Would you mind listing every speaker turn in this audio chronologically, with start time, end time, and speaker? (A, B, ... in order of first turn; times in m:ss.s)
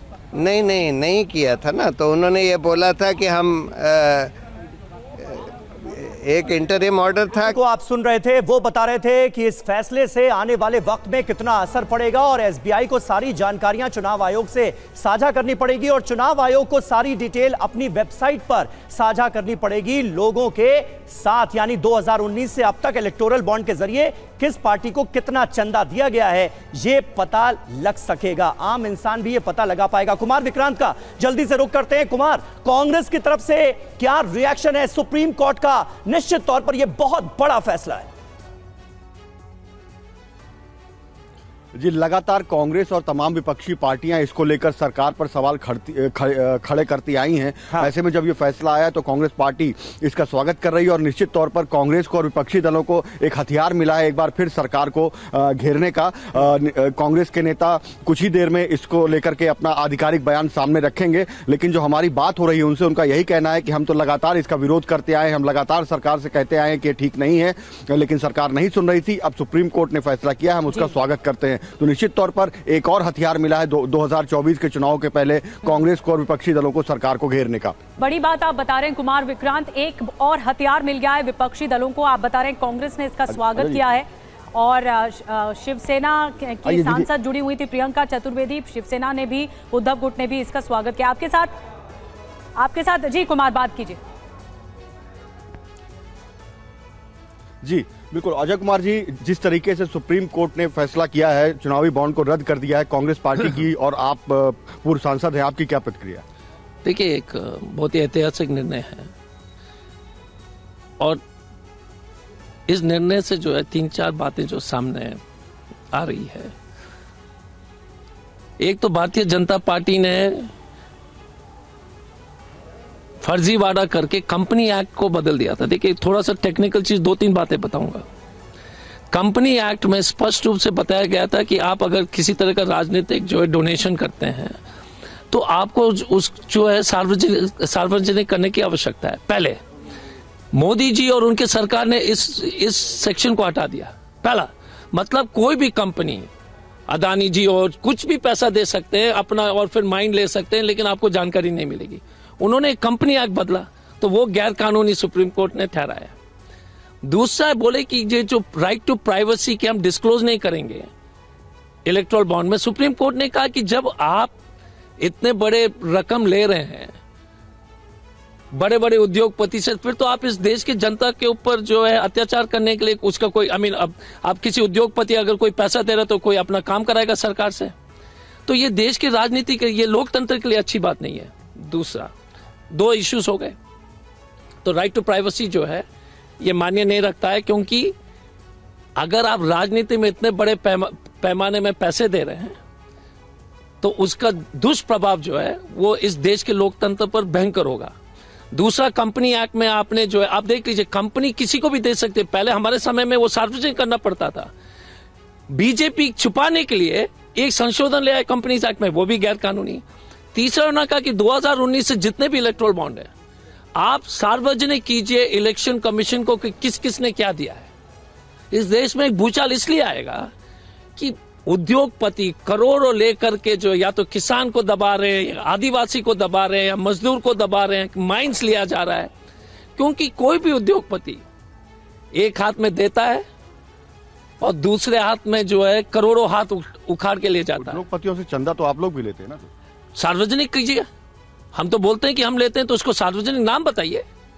0:00.3-0:04.3 A
0:05.2-0:07.5 A
0:07.5-0:38.1 B
0:41.8-1:17.8 C
1:18.0-1:31.5 D
1:23.3-1:23.9 C
1:26.6-1:27.1 C
1:32.6-1:34.0 D
1:37.6-1:46.2 C
1:46.8-1:49.1 E
1:52.7-1:55.2 E
1:55.9-1:56.5 E
1:58.6-2:00.5 E
2:03.2-2:08.0 E
2:09.1-2:14.6 E
2:15.3-2:19.6 E
2:20.5-2:26.3 E
2:26.9-2:36.1 E
2:37.0-2:40.9 E
2:41.9-2:44.3 E
2:45.0-2:46.9 E
2:48.5-2:57.7 E
2:58.5-3:02.1 E
3:02.7-3:03.6 E
3:04.6-3:05.8 E
3:06.4-3:07.9 E
3:09.0-3:12.6 E
3:13.8-3:17.9 E
3:18.5-3:24.5 E
3:25.5-3:29.8 E
3:30.3-3:33.1 E
3:33.8-3:37.7 E
3:38.5-3:40.3 E
3:41.0-3:49.1 E
3:49.8-3:51.2 E
3:52.1-3:53.2 E
3:54.4-3:57.8 E
3:57.6-3:59.5 C
4:00.0-4:00.8 E
4:01.5-4:04.0 E